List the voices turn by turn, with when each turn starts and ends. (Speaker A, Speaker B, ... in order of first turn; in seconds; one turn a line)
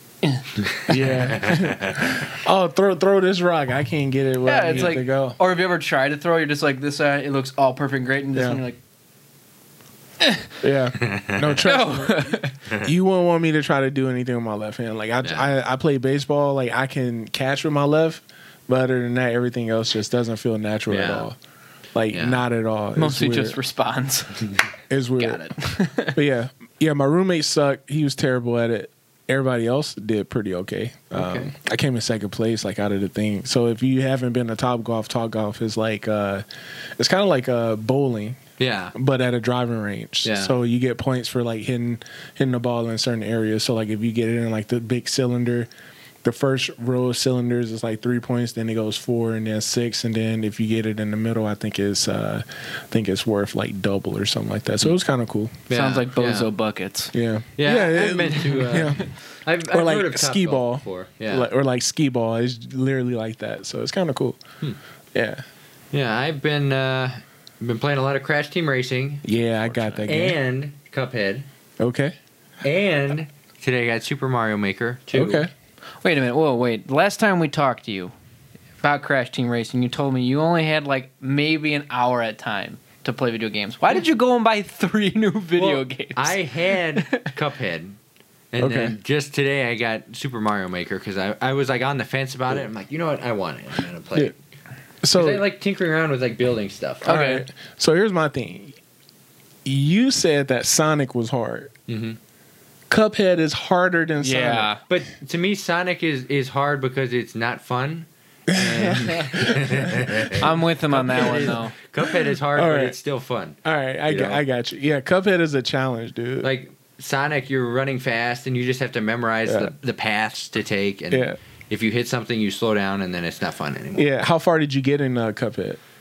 Speaker A: 0.2-1.1
Speaker B: 0.9-5.4
Speaker C: 1.3-2.2
Speaker A: 4.4-8.8
Speaker B: 8.3-8.6
Speaker A: 10.2-10.5
Speaker B: 10.6-21.4
Speaker C: 11.0-11.6
Speaker A: 11.6-12.5
Speaker C: 20.9-21.2
Speaker B: 21.9-23.6
Speaker C: 22.1-22.4
Speaker A: 22.9-24.6
Speaker B: 24.9-25.5
Speaker A: 25.2-26.2
Speaker B: 26.1-36.4
Speaker C: 31.1-31.5
Speaker B: 37.0-38.4
Speaker C: 38.6-38.9
Speaker B: 38.9-45.7
Speaker C: 40.2-40.5
Speaker B: 46.2-55.7
Speaker C: 55.7-56.5
Speaker A: 55.7-57.1
Speaker B: 57.1-59.0
Speaker C: 57.6-61.5
Speaker B: 59.7-64.4
Speaker B: 65.1-65.4
Speaker C: 65.9-71.4
Speaker B: 69.2-70.4
Speaker B: 71.8-72.1
Speaker C: 72.6-75.5
Speaker B: 75.1-75.5
Speaker A: 76.0-78.1
Speaker A: 78.8-87.3
Speaker C: 85.5-88.0
Speaker C: 88.5-94.3
Speaker B: 88.6-88.9
Speaker B: 95.0-95.4
Speaker C: 95.1-97.0
Speaker A: 97.0-97.4
Speaker B: 97.0-98.8
Speaker B: 99.6-101.7
Speaker C: 101.9-102.2
Speaker B: 102.9-104.7
Speaker A: 104.2-104.8
Speaker C: 104.9-113.5
Speaker B: 108.5-113.0
Speaker A: 110.4-111.7
Speaker B: 113.6-116.5
Speaker C: 114.1-114.4
Speaker C: 116.4-124.0
Speaker B: 119.5-119.7
Speaker B: 121.1-121.4
Speaker B: 124.0-125.8